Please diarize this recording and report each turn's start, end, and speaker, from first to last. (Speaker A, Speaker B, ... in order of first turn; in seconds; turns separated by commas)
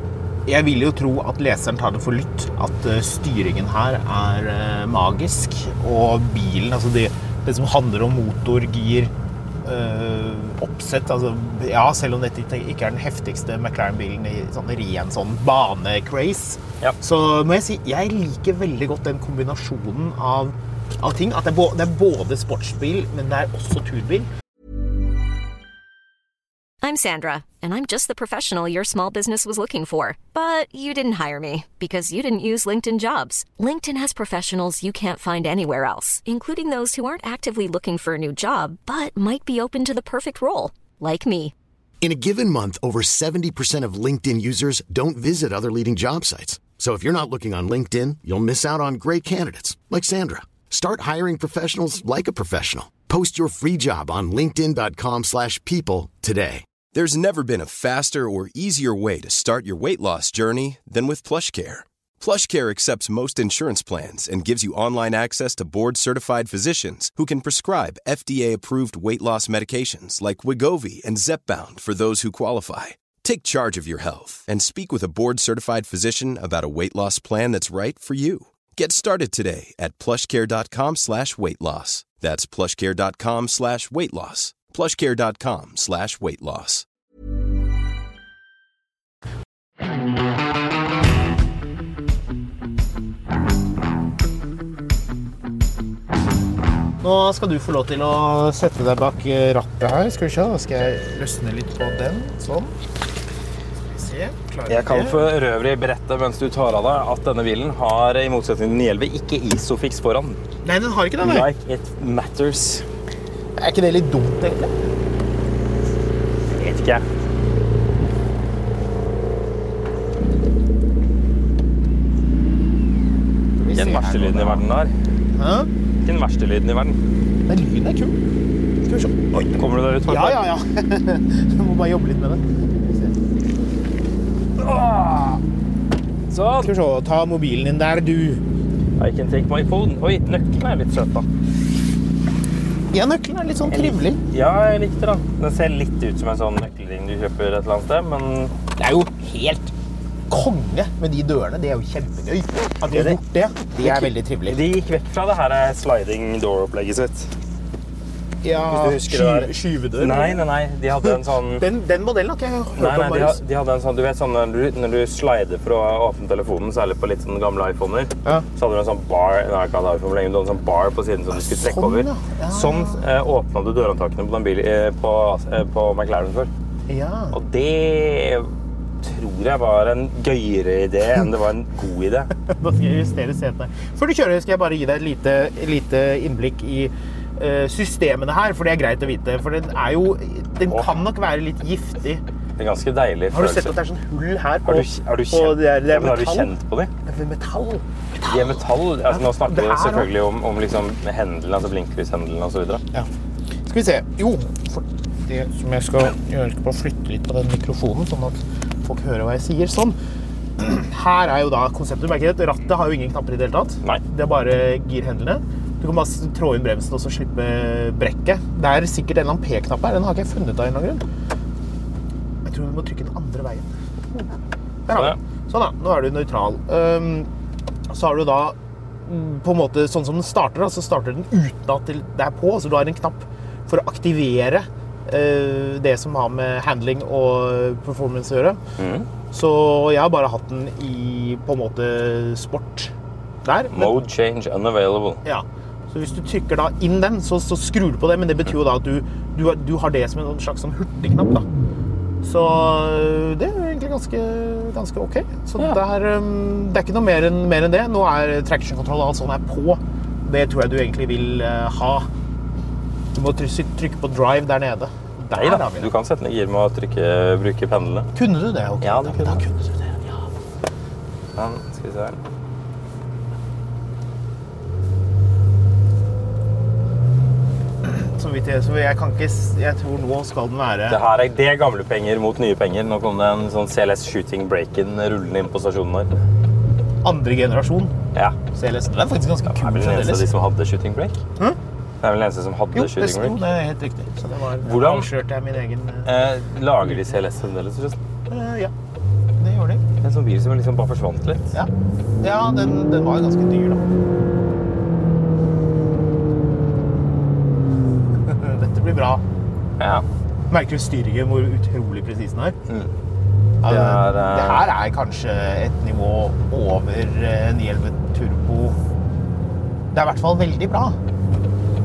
Speaker A: 0.5-9.1, Speaker A: 9.6-24.3, Speaker B: 26.8-41.5, Speaker C: 42.0-56.6, Speaker D: 56.9-86.8, Speaker A: 97.0-102.7, Speaker A: 103.9-105.3, Speaker E: 104.7-110.4, Speaker A: 110.6-111.5, Speaker E: 111.2-112.8, Speaker A: 113.6-114.8, Speaker E: 116.5-117.0, Speaker A: 123.6-124.6, Speaker E: 123.7-124.9, Speaker A: 125.3-125.7, Speaker E: 126.0-127.0, Speaker A: 127.5-128.2, Speaker A: 128.8-129.5, Speaker E: 129.4-130.4, Speaker A: 130.1-133.1, Speaker E: 134.6-135.3, Speaker E: 136.3-136.7, Speaker A: 136.6-138.4, Speaker E: 139.0-141.3, Speaker A: 142.9-144.2, Speaker E: 143.7-148.5, Speaker A: 148.8-149.7, Speaker A: 150.3-154.6, Speaker E: 152.9-153.2, Speaker E: 153.8-157.3, Speaker A: 158.4-160.4, Speaker E: 158.6-161.6, Speaker A: 161.6-163.4, Speaker E: 162.8-176.5, Speaker A: 171.3-173.0, Speaker A: 176.9-177.3, Speaker E: 177.3-178.5, Speaker E: 179.0-182.3, Speaker A: 182.5-192.2, Speaker E: 190.7-191.0, Speaker E: 192.6-193.8, Speaker A: 193.3-196.5, Speaker E: 194.6-196.9, Speaker A: 197.1-198.6, Speaker E: 198.3-202.8, Speaker A: 199.1-200.1, Speaker A: 203.7-209.9, Speaker A: 210.6-221.0, Speaker A: 222.4-224.2, Speaker A: 224.9-227.3, Speaker A: 227.9-238.6, Speaker E: 238.8-239.1, Speaker A: 239.3-242.9, Speaker A: 243.4-243.9, Speaker E: 243.7-245.2, Speaker A: 245.2-251.4, Speaker A: 252.2-262.1, Speaker A: 263.1-265.9, Speaker E: 265.3-268.1, Speaker A: 268.1-270.1, Speaker E: 268.8-269.4, Speaker E: 271.4-272.2, Speaker A: 277.8-281.0, Speaker E: 280.9-286.1, Speaker A: 287.0-287.9, Speaker A: 288.5-290.3, Speaker E: 289.5-291.2, Speaker E: 292.0-293.4, Speaker A: 292.7-296.1, Speaker E: 294.6-295.1, Speaker E: 296.0-298.0, Speaker A: 298.3-298.7, Speaker A: 299.4-299.8, Speaker E: 300.0-301.5, Speaker A: 302.2-303.8, Speaker A: 308.2-309.2, Speaker E: 309.8-310.1, Speaker A: 310.5-312.6, Speaker A: 313.6-318.8, Speaker E: 313.6-314.6, Speaker A: 319.9-320.9